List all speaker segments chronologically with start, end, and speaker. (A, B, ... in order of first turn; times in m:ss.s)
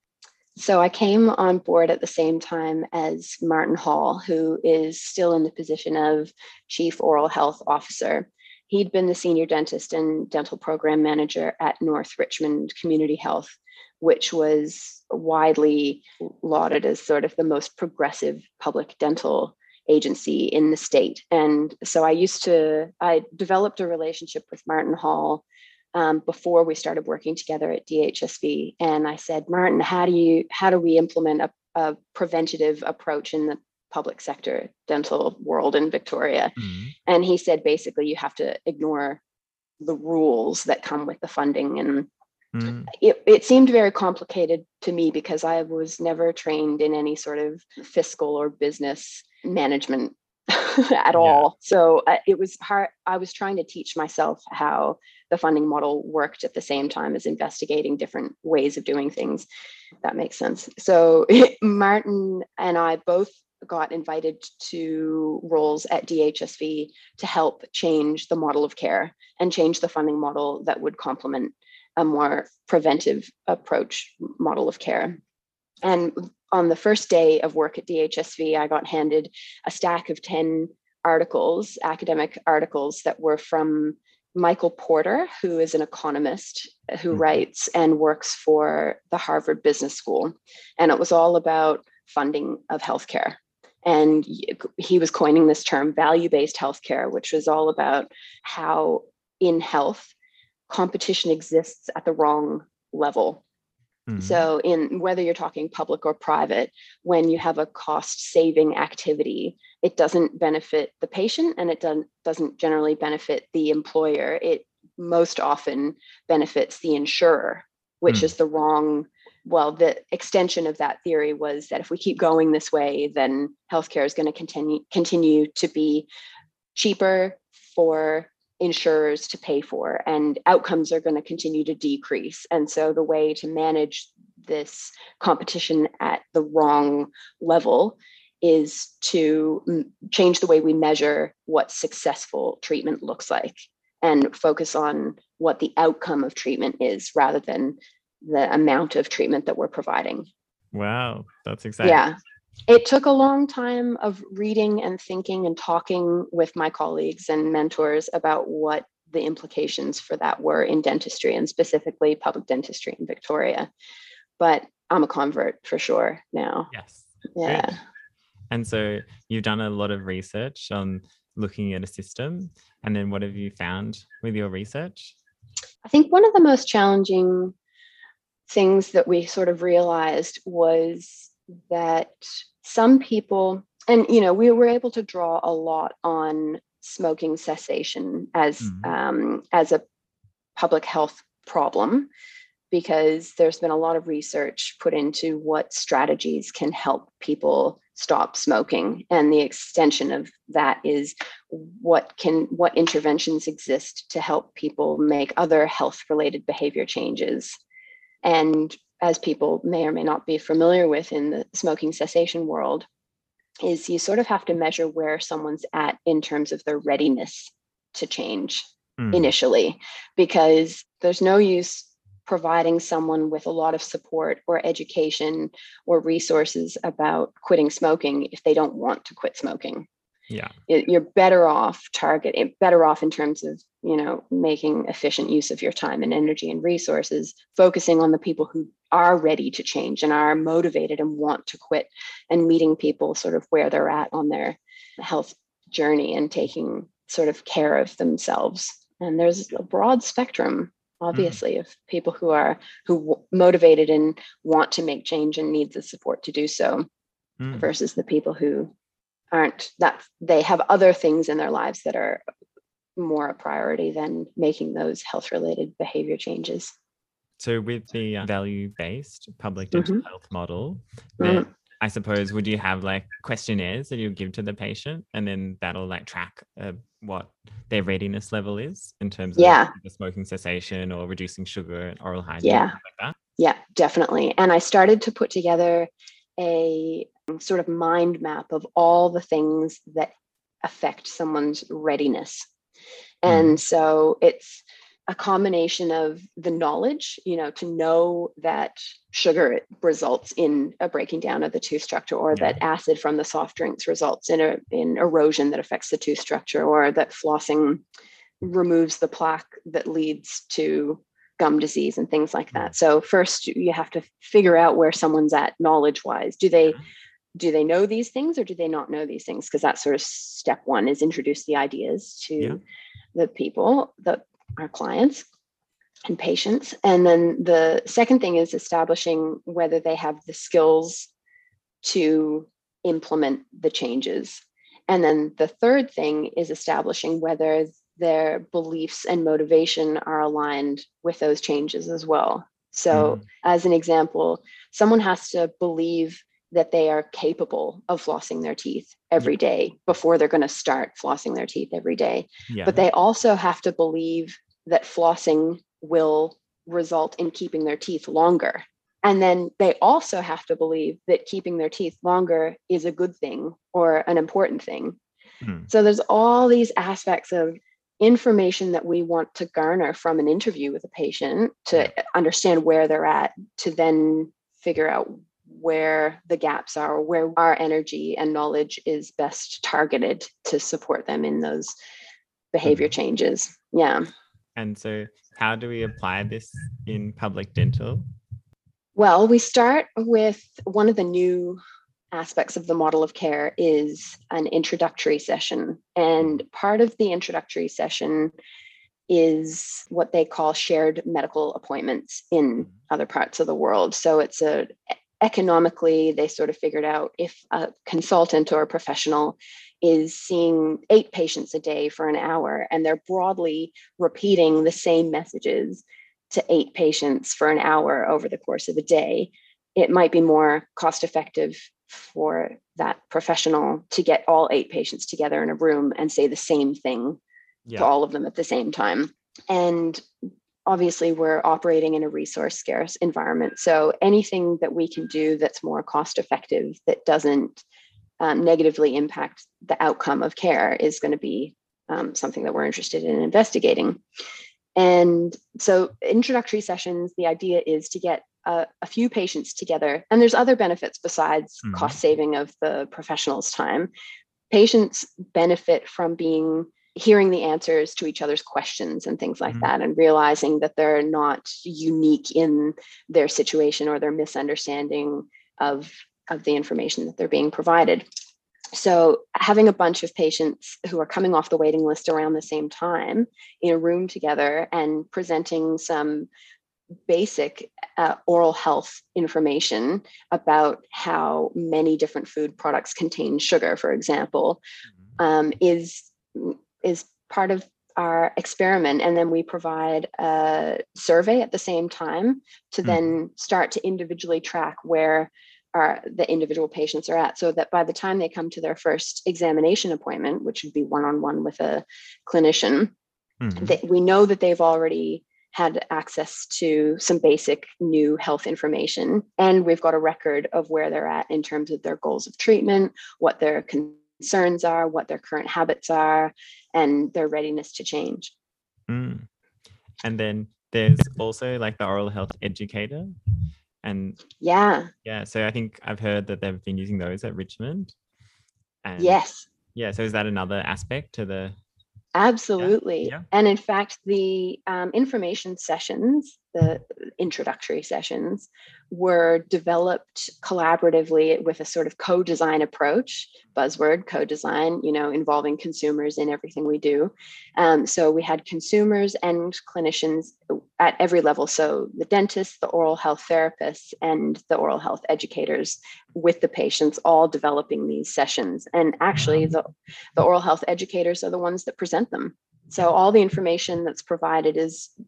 0:00.6-0:39.2 A
0:36.6-0:36.9 B
0:39.8-0:42.1 A
0:42.5-0:42.9 B
0:42.9-0:59.5 A
0:51.2-0:51.4 B
1:00.0-1:15.2 A
1:15.8-1:40.1 A
1:40.7-1:43.4 A
1:44.1-1:44.4 B
1:44.2-2:06.1 A
2:06.8-2:30.3 A
2:30.7-2:32.0 B
2:31.8-2:32.2 A
2:32.7-2:43.7 A
2:44.4-2:46.7 A
2:46.7-2:47.8 B
2:47.4-2:47.8 A
2:48.5-2:55.2 B
2:55.9-2:57.5 A
2:58.5-3:09.8 A
3:08.6-3:08.9 B
3:10.6-3:12.1 A
3:12.7-3:27.6 A
3:28.2-3:32.9 A
3:33.6-3:49.9 A
3:39.0-3:39.3 B
3:50.7-4:16.8 A
4:17.4-4:17.7 B
4:17.5-4:18.7 A
4:19.3-4:22.2 A
4:23.0-4:26.7 A
4:27.4-4:43.2 B
4:29.7-4:30.0 A
4:31.2-4:31.5 A
4:39.4-4:39.7 A
4:42.4-4:42.8 A
4:43.4-4:50.1 A
4:50.6-4:52.5 A
4:53.2-5:07.8 A
4:53.3-4:53.6 B
5:02.3-5:02.6 B
5:08.4-5:16.8 A
5:17.4-5:22.6 A
5:23.2-5:25.2 A
5:26.1-5:31.1 A
5:31.8-6:05.0 A
5:42.9-5:43.2 B
5:52.5-5:52.8 B
6:05.4-6:05.7 B
6:05.7-6:21.7 A
6:22.5-6:24.1 A
6:24.6-6:28.0 B
6:29.0-6:31.6 A
6:32.1-6:38.4 A
6:39.1-7:07.2 A
7:07.7-7:07.9 B
7:07.8-7:10.1 A
7:10.7-7:17.6 A
7:18.2-7:24.0 A
7:24.8-7:33.9 A
7:31.6-7:32.0 B
7:34.5-7:48.1 A
7:48.7-7:56.3 A
7:57.1-8:04.6 A
8:05.2-8:22.9 A
8:23.4-8:23.8 B
8:23.6-8:38.3 A
8:38.9-8:39.3 B
8:40.0-8:43.2 B
8:43.8-8:44.2 B
8:44.4-8:44.9 A
8:45.0-8:48.0 B
8:48.8-8:49.2 B
8:49.0-8:49.5 A
8:49.8-8:51.6 B
8:52.2-9:24.9 A
8:52.6-8:53.2 B
9:19.2-9:19.4 B